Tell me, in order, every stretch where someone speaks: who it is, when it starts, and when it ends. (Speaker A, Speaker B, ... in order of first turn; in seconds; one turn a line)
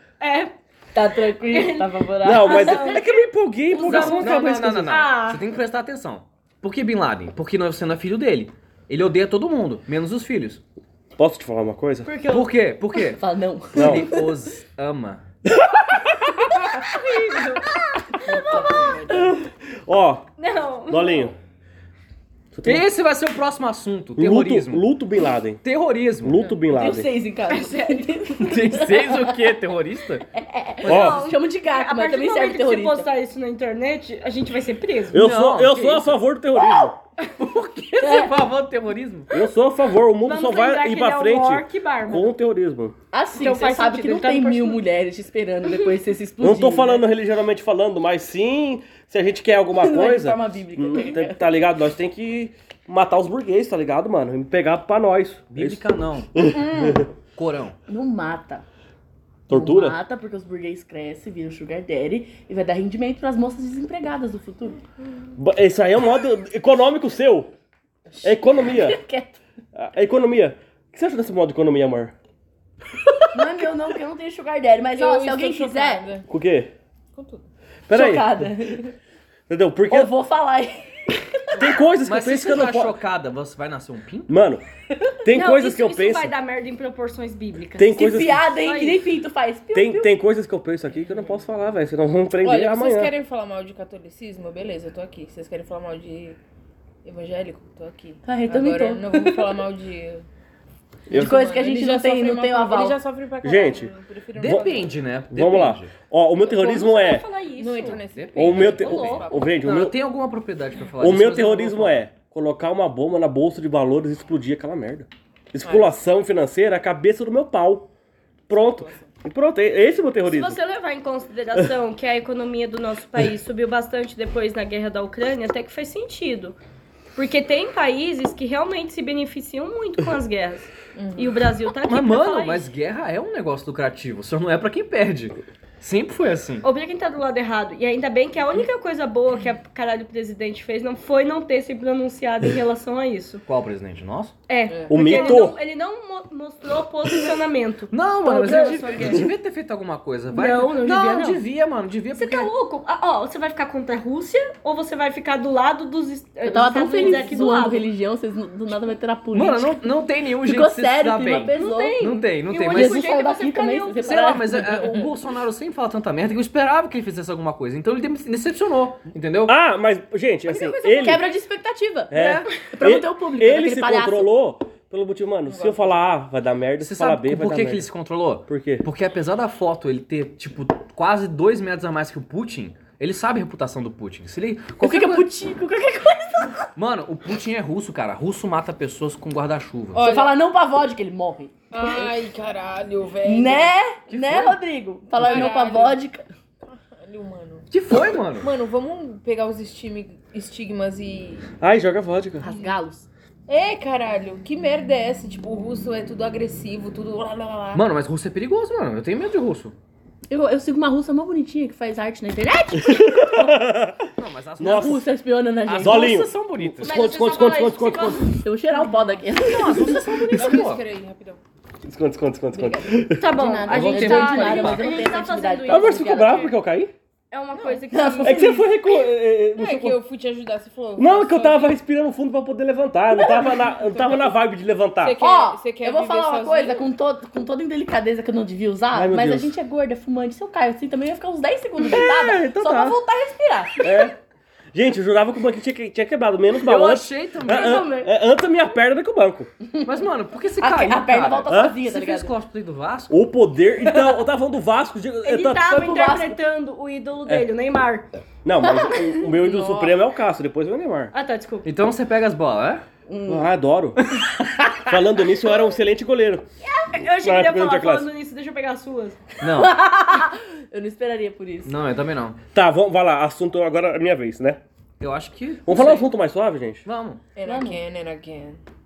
Speaker A: 0.2-0.5
Speaker B: 0.9-3.0
Speaker A: 1.5-3.2
Speaker C: 2.2-4.9
Speaker A: 3.7-5.4
Speaker D: 3.8-10.6
Speaker C: 11.2-12.1
Speaker A: 12.0-12.5
Speaker D: 12.3-15.2
Speaker B: 13.2-14.3
Speaker C: 13.8-14.1
Speaker C: 15.4-15.9
Speaker A: 16.7-19.1
Speaker B: 18.2-19.1
Speaker E: 18.3-19.2
Speaker C: 19.1-20.2
Speaker A: 20.4-21.3
Speaker C: 20.9-21.3
Speaker C: 22.5-22.9
Speaker D: 22.6-24.9
Speaker C: 24.2-25.6
Speaker D: 25.6-26.4
Speaker C: 26.2-27.1
Speaker B: 26.7-29.5
Speaker A: 27.5-28.1
Speaker D: 28.4-30.2
Speaker B: 30.3-33.1
Speaker D: 30.9-31.1
Speaker C: 30.9-31.2
Speaker A: 30.9-35.2
Speaker C: 35.1-37.0
Speaker D: 35.1-36.2
Speaker D: 37.4-39.3
Speaker B: 38.0-38.4
Speaker C: 39.3-42.9
Speaker A: 40.2-42.3
Speaker B: 43.1-47.0
Speaker A: 43.3-44.8
Speaker C: 46.4-55.8
Speaker B: 49.8-51.5
Speaker D: 55.5-56.3
Speaker C: 56.3-57.1
Speaker B: 56.4-57.0
Speaker D: 57.3-57.8
Speaker B: 57.9-58.6
Speaker C: 59.5-60.0
Speaker B: 59.5-64.8
Speaker C: 65.4-67.5
Speaker C: 68.2-69.0
Speaker B: 68.5-69.4
Speaker C: 69.7-72.1
Speaker B: 73.3-76.1
Speaker E: 75.0-76.3
Speaker C: 76.3-76.7
Speaker E: 77.1-77.4
Speaker C: 77.9-78.5
Speaker B: 77.9-78.9
Speaker C: 79.5-80.1
Speaker B: 79.9-81.7
Speaker C: 81.5-83.0
Speaker D: 82.0-84.3
Speaker C: 84.3-84.6
Speaker C: 85.2-86.3
Speaker A: 85.3-89.1
Speaker C: 87.8-88.5
Speaker B: 87.9-90.1
Speaker C: 89.7-93.1
Speaker E: 92.4-96.4
Speaker E: 97.0-100.2
Speaker B: 98.2-99.6
Speaker E: 101.1-104.9
Speaker B: 101.1-103.0
Speaker C: 103.4-104.8
Speaker D: 104.4-105.9
Speaker C: 105.3-107.2
Speaker E: 106.5-106.7
Speaker A: 106.6-108.0
Speaker E: 107.5-109.5
Speaker D: 107.8-112.0
Speaker C: 108.3-110.0
Speaker A: 108.7-109.3
Speaker C: 111.0-117.9
Speaker E: 115.6-115.9
Speaker C: 118.5-120.6
Speaker E: 118.5-119.1
Speaker A: 120.2-126.5
Speaker A: 127.1-132.7
Speaker E: 130.9-131.3
Speaker D: 131.8-136.7
Speaker A: 136.6-143.4
Speaker D: 143.5-144.3
Speaker A: 144.5-149.3
Speaker E: 144.7-145.4
Speaker C: 144.9-145.6
Speaker D: 147.9-152.5
Speaker A: 150.3-151.4
Speaker A: 152.1-157.9
Speaker B: 156.4-159.9
Speaker D: 159.3-163.1
Speaker B: 160.4-162.1
Speaker A: 161.5-164.4
Speaker B: 162.6-165.0
Speaker D: 164.0-169.6
Speaker C: 169.4-171.2
Speaker A: 170.5-171.3
Speaker B: 171.0-174.3
Speaker C: 172.1-177.9
Speaker D: 172.2-172.4
Speaker E: 175.5-176.1
Speaker D: 176.8-185.3
Speaker C: 178.5-178.9
Speaker B: 184.8-186.7
Speaker D: 186.8-190.1
Speaker E: 189.9-190.3
Speaker B: 189.9-192.1
Speaker E: 191.7-193.7
Speaker B: 193.2-196.2
Speaker D: 194.1-194.5
Speaker E: 195.2-196.0
Speaker E: 196.7-197.7
Speaker D: 197.7-198.5
Speaker E: 198.4-201.5
Speaker C: 201.6-202.4
Speaker B: 202.4-203.1
Speaker E: 203.5-207.8
Speaker D: 207.7-209.7
Speaker B: 210.3-213.5
Speaker C: 212.8-215.0
Speaker D: 214.2-216.9
Speaker B: 214.6-216.2
Speaker C: 215.8-218.3
Speaker A: 216.8-218.4
Speaker B: 218.4-220.0
Speaker E: 218.7-221.4
Speaker D: 219.3-220.8
Speaker C: 221.8-223.4
Speaker E: 222.6-222.8
Speaker A: 223.1-226.5
Speaker B: 223.2-226.5
Speaker D: 223.7-224.9
Speaker C: 225.7-226.9
Speaker A: 227.3-228.5
Speaker E: 227.5-227.8
Speaker B: 227.9-228.7
Speaker C: 228.2-230.0
Speaker E: 229.6-231.8
Speaker C: 230.9-235.2
Speaker E: 233.2-234.3
Speaker E: 235.0-236.9
Speaker B: 235.2-243.9
Speaker C: 238.9-239.5
Speaker C: 241.8-243.0
Speaker C: 243.8-244.1
Speaker C: 244.7-249.5
Speaker D: 246.6-247.9
Speaker B: 247.4-248.1
Speaker B: 249.7-250.0
Speaker D: 249.8-253.3
Speaker B: 250.6-252.3
Speaker C: 251.5-251.8
Speaker C: 253.1-255.7
Speaker B: 253.8-254.2
Speaker A: 255.2-258.1
Speaker B: 255.6-256.4
Speaker C: 258.4-261.1
Speaker B: 258.6-258.9
Speaker A: 261.1-261.7
Speaker D: 261.6-262.8
Speaker B: 263.1-263.5
Speaker C: 263.3-264.0
Speaker D: 264.1-264.9
Speaker C: 264.9-266.4
Speaker A: 266.6-269.2
Speaker C: 267.1-268.1
Speaker D: 269.4-269.7
Speaker B: 269.4-271.7
Speaker D: 271.6-272.4
Speaker C: 272.5-274.6
Speaker D: 275.0-276.1
Speaker C: 275.6-276.8
Speaker D: 276.8-277.2
Speaker E: 277.4-278.6
Speaker B: 277.4-277.8